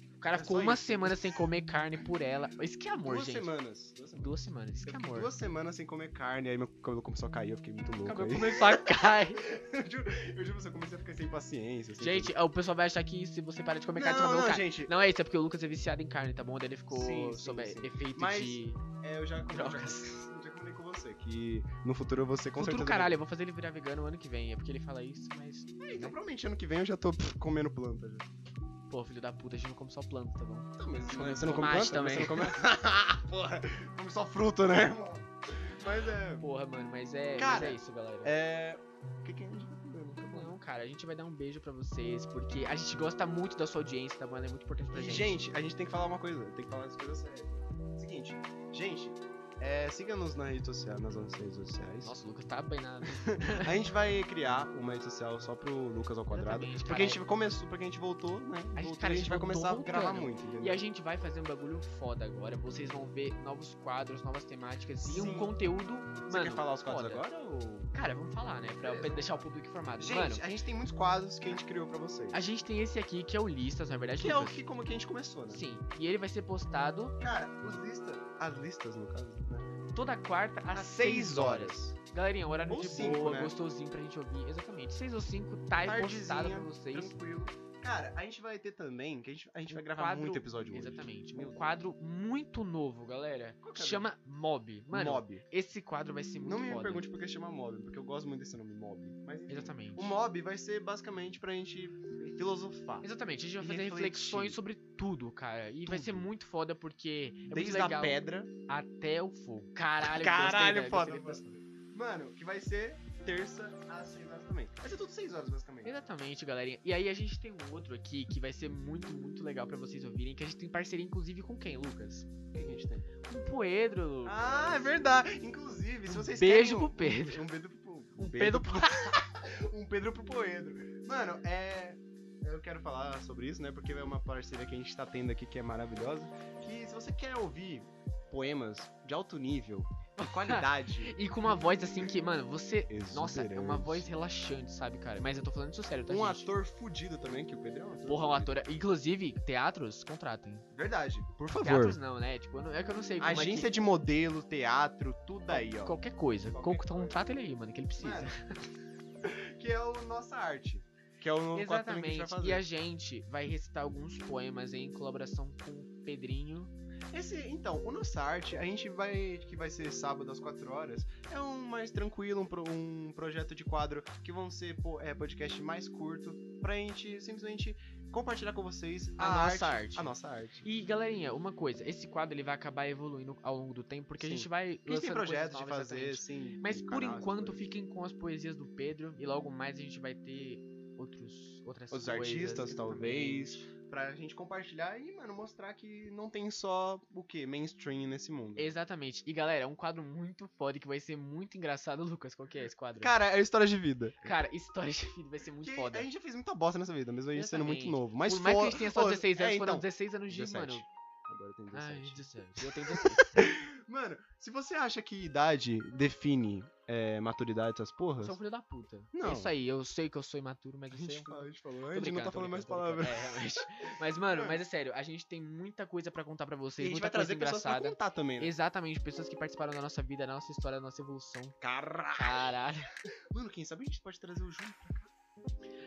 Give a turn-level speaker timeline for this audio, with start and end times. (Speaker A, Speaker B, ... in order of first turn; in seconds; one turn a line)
Speaker A: 0.2-3.5
Speaker B: 0.3-1.4
Speaker B: 2.9-12.3
Speaker A: 4.2-5.3
Speaker A: 8.0-9.4
Speaker A: 12.0-18.8
Speaker B: 13.9-14.9
Speaker B: 16.9-23.2
Speaker A: 19.5-20.1
Speaker A: 22.6-26.1
Speaker B: 25.8-28.3
Speaker A: 28.9-32.6
Speaker B: 30.8-36.4
Speaker A: 36.4-38.3
Speaker B: 37.3-40.5
Speaker A: 40.3-45.4
Speaker B: 44.9-52.1
Speaker A: 52.0-53.7
Speaker B: 53.2-60.8
Speaker A: 56.3-57.2
Speaker A: 58.7-67.2
Speaker B: 65.0-65.5
Speaker B: 66.3-67.9
Speaker A: 67.9-70.4
Speaker B: 68.8-69.4
Speaker B: 70.0-72.4
Speaker A: 72.3-74.6
Speaker B: 74.2-75.6
Speaker A: 75.5-77.2
Speaker B: 77.2-79.7
Speaker A: 79.9-87.1
Speaker B: 80.7-82.0
Speaker B: 82.7-83.5
Speaker B: 85.8-91.6
Speaker A: 89.7-97.0
Speaker B: 93.6-94.1
Speaker B: 94.9-95.5
Speaker B: 96.4-104.6
Speaker A: 99.5-100.1
Speaker A: 103.0-111.5
Speaker B: 105.8-106.3
Speaker B: 107.5-108.5
Speaker B: 110.0-115.9
Speaker A: 115.8-122.3
Speaker B: 122.5-123.1
Speaker A: 123.3-124.9
Speaker B: 124.2-142.1
Speaker A: 126.1-127.4
Speaker A: 128.2-129.2
Speaker A: 140.2-146.5
Speaker B: 142.9-144.0
Speaker B: 146.1-148.6
Speaker A: 148.1-150.6
Speaker B: 150.7-152.0
Speaker A: 151.6-153.7
Speaker B: 153.2-156.0
Speaker A: 155.5-158.4
Speaker B: 156.5-157.3
Speaker B: 158.0-158.4
Speaker B: 159.2-162.6
Speaker A: 161.5-166.7
Speaker B: 167.1-180.7
Speaker A: 179.2-193.7
Speaker B: 184.2-187.6
Speaker B: 191.9-198.7
Speaker A: 198.6-203.1
Speaker B: 203.0-204.3
Speaker A: 204.2-206.1
Speaker B: 205.6-218.4
Speaker A: 207.3-210.8
Speaker A: 211.7-213.5
Speaker A: 218.2-231.6
Speaker B: 219.1-219.5
Speaker B: 220.9-224.6
Speaker B: 226.8-228.5
Speaker B: 231.6-232.5
Speaker A: 232.1-232.9
Speaker B: 233.3-235.1